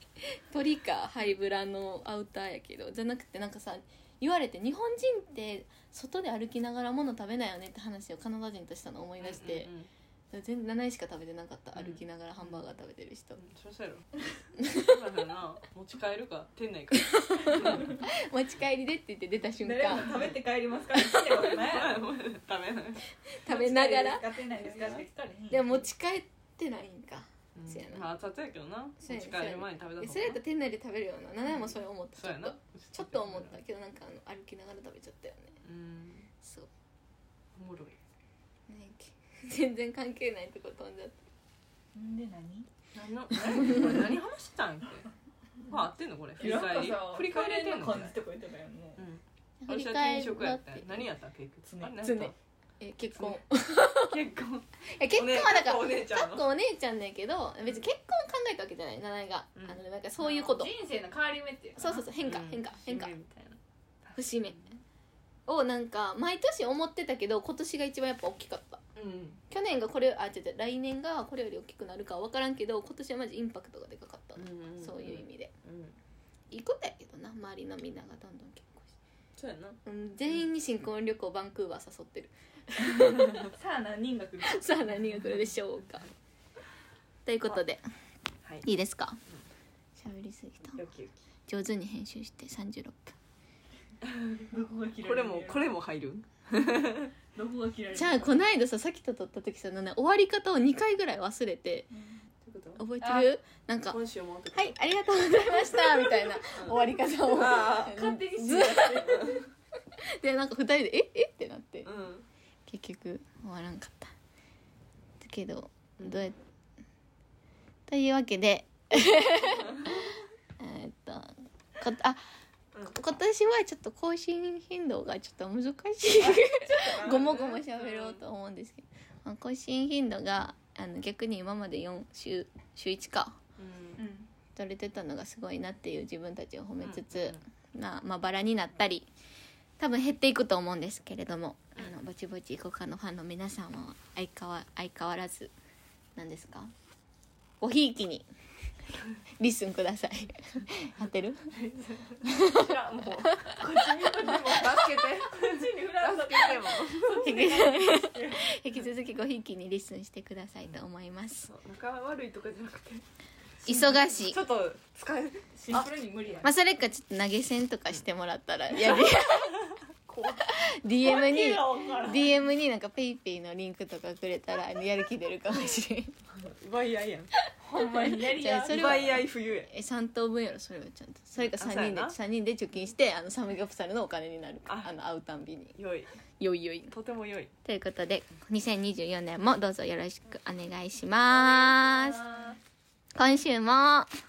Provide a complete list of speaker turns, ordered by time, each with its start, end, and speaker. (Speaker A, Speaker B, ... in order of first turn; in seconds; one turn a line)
Speaker A: 0.2-9.7
Speaker B: 9.2-9.9
Speaker A: 10.3-13.4
Speaker B: 11.7-12.6
Speaker B: 13.4-14.1
Speaker A: 14.6-15.0
Speaker B: 14.6-18.0
Speaker A: 17.1-20.2
Speaker C: 19.6-22.0
Speaker B: 19.9-20.3
Speaker B: 21.3-23.0
Speaker A: 23.3-24.3
Speaker C: 23.4-25.9
Speaker B: 24.7-25.0
Speaker A: 25.5-28.1
Speaker B: 27.5-30.4
Speaker A: 29.0-35.6
Speaker B: 31.5-33.5
Speaker B: 35.6-36.3
Speaker A: 36.4-36.7
Speaker B: 37.5-38.0
Speaker A: 38.7-41.2
Speaker C: 41.9-42.7
Speaker B: 42.9-45.1
Speaker B: 45.6-48.2
Speaker C: 46.4-49.0
Speaker B: 49.0-52.3
Speaker A: 49.6-51.1
Speaker C: 51.7-52.0
Speaker A: 52.0-54.2
Speaker B: 53.1-53.4
Speaker B: 53.9-56.5
Speaker A: 54.8-60.7
Speaker C: 60.2-62.0
Speaker A: 61.8-63.1
Speaker B: 62.2-63.6
Speaker A: 64.1-64.6
Speaker A: 65.5-68.8
Speaker B: 69.0-69.4
Speaker A: 69.5-75.5
Speaker B: 74.3-76.0
Speaker A: 76.5-78.9
Speaker B: 79.4-79.8
Speaker A: 79.8-83.5
Speaker C: 83.5-84.7
Speaker A: 84.4-86.1
Speaker A: 87.2-87.8
Speaker A: 88.6-89.2
Speaker A: 90.0-90.8
Speaker B: 90.7-91.1
Speaker A: 91.5-93.1
Speaker B: 94.0-94.5
Speaker C: 94.5-95.7
Speaker B: 95.0-97.1
Speaker C: 97.3-98.4
Speaker A: 97.9-101.9
Speaker C: 101.9-102.2
Speaker B: 102.4-103.3
Speaker A: 102.8-104.0
Speaker B: 103.9-109.5
Speaker A: 104.5-109.4
Speaker C: 107.7-109.3
Speaker A: 110.0-111.9
Speaker B: 111.8-112.2
Speaker A: 112.7-114.1
Speaker A: 115.2-116.4
Speaker B: 116.0-116.3
Speaker A: 117.9-122.2
Speaker B: 119.3-120.1
Speaker A: 122.8-133.4
Speaker B: 126.2-128.2
Speaker C: 126.6-127.4
Speaker B: 133.6-134.0
Speaker C: 134.0-134.3
Speaker A: 134.6-139.1
Speaker B: 136.8-137.4
Speaker A: 139.8-145.5
Speaker A: 146.2-146.7
Speaker A: 147.6-148.3
Speaker A: 149.4-151.5
Speaker B: 151.5-157.5
Speaker A: 152.3-152.7
Speaker C: 153.6-158.4
Speaker A: 157.2-161.5
Speaker B: 161.4-163.0
Speaker B: 163.6-165.9
Speaker A: 163.7-164.4
Speaker C: 165.5-166.5
Speaker A: 166.4-169.7
Speaker B: 170.1-170.5
Speaker A: 170.4-176.1
Speaker B: 171.0-172.3
Speaker C: 171.1-172.1
Speaker B: 176.3-177.3
Speaker C: 177.6-179.2
Speaker A: 178.1-185.8
Speaker B: 178.6-179.7
Speaker B: 181.4-182.2
Speaker B: 184.7-184.9
Speaker B: 185.8-186.2
Speaker A: 186.4-186.9
Speaker B: 186.9-187.5
Speaker A: 187.6-192.2
Speaker B: 191.3-192.5
Speaker C: 192.0-192.6
Speaker A: 193.1-194.1